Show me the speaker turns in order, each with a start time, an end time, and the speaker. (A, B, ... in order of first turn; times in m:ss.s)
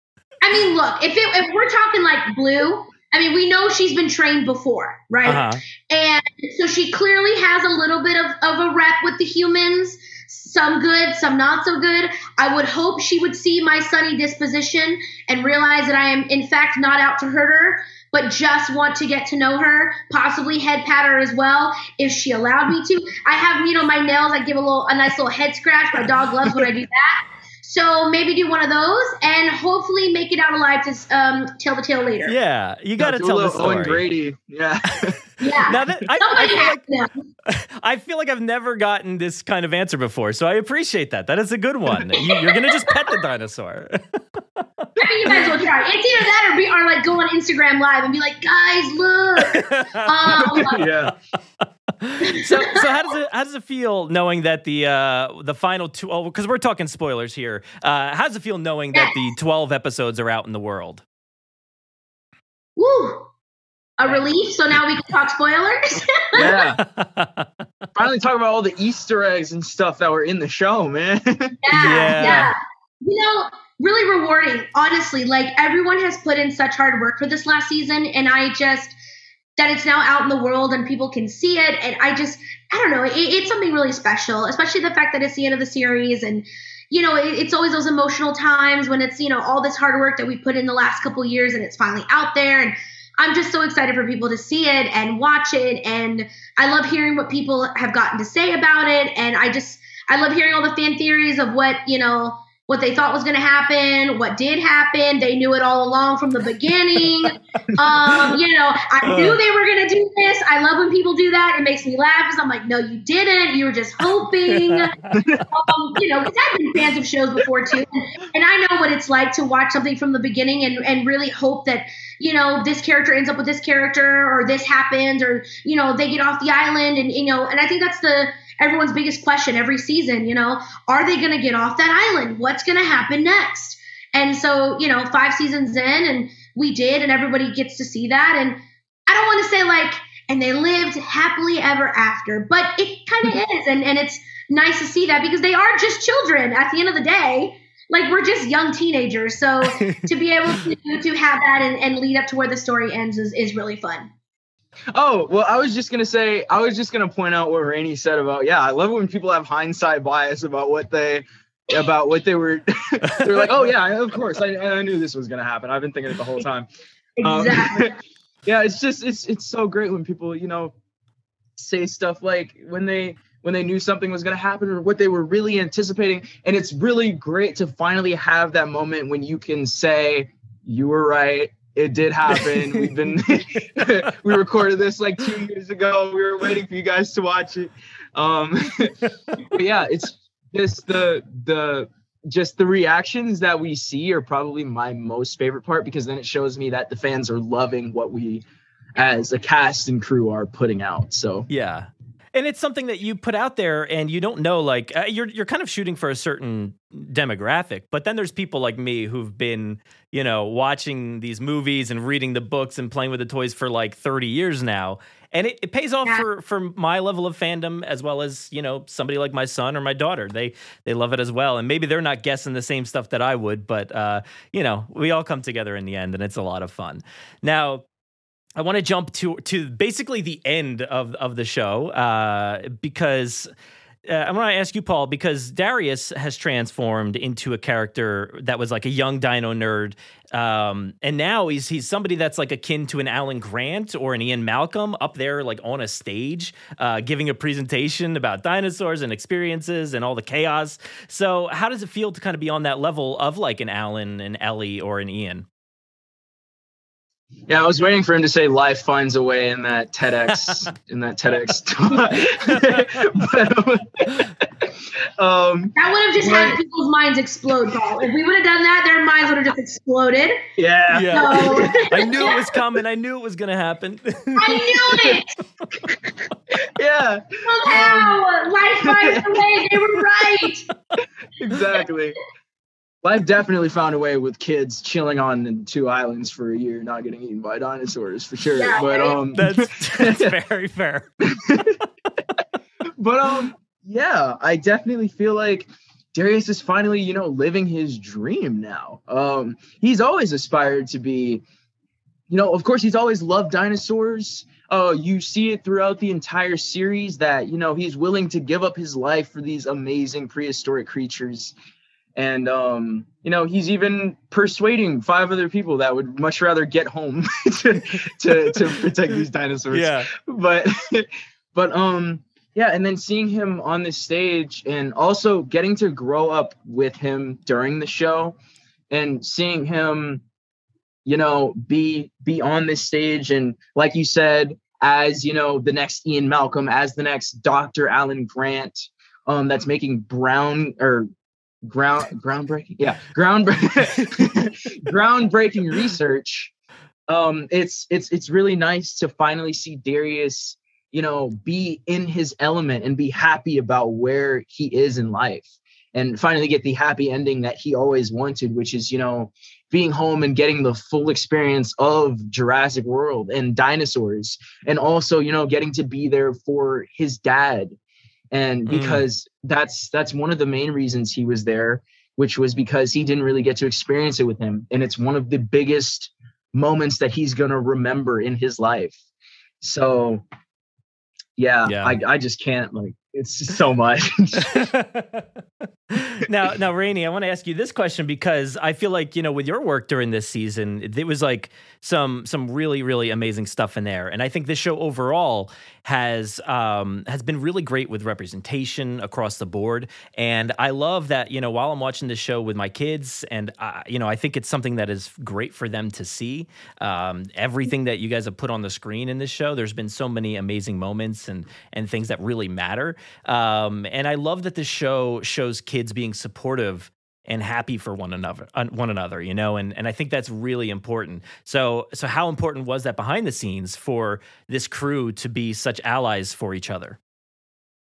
0:00.4-0:32.4 A
0:05.2-0:05.6 B
0:32.2-0:34.0 B
0:33.0-0:35.2 C
0:35.4-0:37.1 A
0:35.7-0:36.8 B
0:37.5-0:44.0 B
0:45.0-0:50.8 A
0:45.3-0:45.6 B
0:49.5-0:51.1 B
0:50.3-0:51.2 C
0:52.0-1:01.0 B
0:52.2-0:52.8 A
1:02.8-1:03.3 A
1:04.0-1:06.5 A
1:06.4-1:06.8 C
1:06.4-1:07.5 B
1:08.0-1:12.5 C
1:11.6-1:19.0 A
1:11.7-1:12.5 B
1:19.6-1:54.9 A
1:47.9-1:48.3 C
1:49.0-1:49.4 B
1:54.5-1:55.2 B
1:55.2-1:55.5 C
1:55.5-2:34.1 A
2:34.9-2:46.7 C
2:43.2-2:43.5 B
2:47.2-2:47.9 A
2:47.2-2:47.9 C
2:48.4-2:50.8 C
2:51.6-3:09.0 C
3:09.5-3:18.4 C
3:19.0-3:21.5 C
3:21.5-3:47.8 B
3:48.6-3:53.5 B
3:54.1-4:15.5 B
4:17.5-4:26.6 C
4:22.5-4:22.9 B
4:25.8-4:30.4 A
4:30.6-4:32.4 C
4:30.9-4:35.2 B
4:31.1-4:32.4 A
4:34.4-4:35.3 A
4:36.5-4:38.2 C
4:37.4-4:40.7 A
4:38.8-4:39.5 C
4:41.4-4:42.2 C
4:43.0-4:50.3 C
4:48.6-4:49.2 A
4:49.4-4:51.1 B
4:51.3-4:51.8 C
4:53.0-5:01.4 C
5:02.3-5:11.6 C
5:12.2-5:28.4 C
5:19.7-5:20.1 B
5:28.9-5:30.2 C
5:31.0-5:41.1 C
5:41.6-5:46.5 C
5:47.1-6:07.8 C
6:08.3-6:19.0 C
6:08.7-6:09.0 B
6:19.6-6:20.2 C
6:21.4-6:24.6 C
6:21.7-6:22.0 B
6:24.5-6:25.3 B
6:25.9-7:07.0 B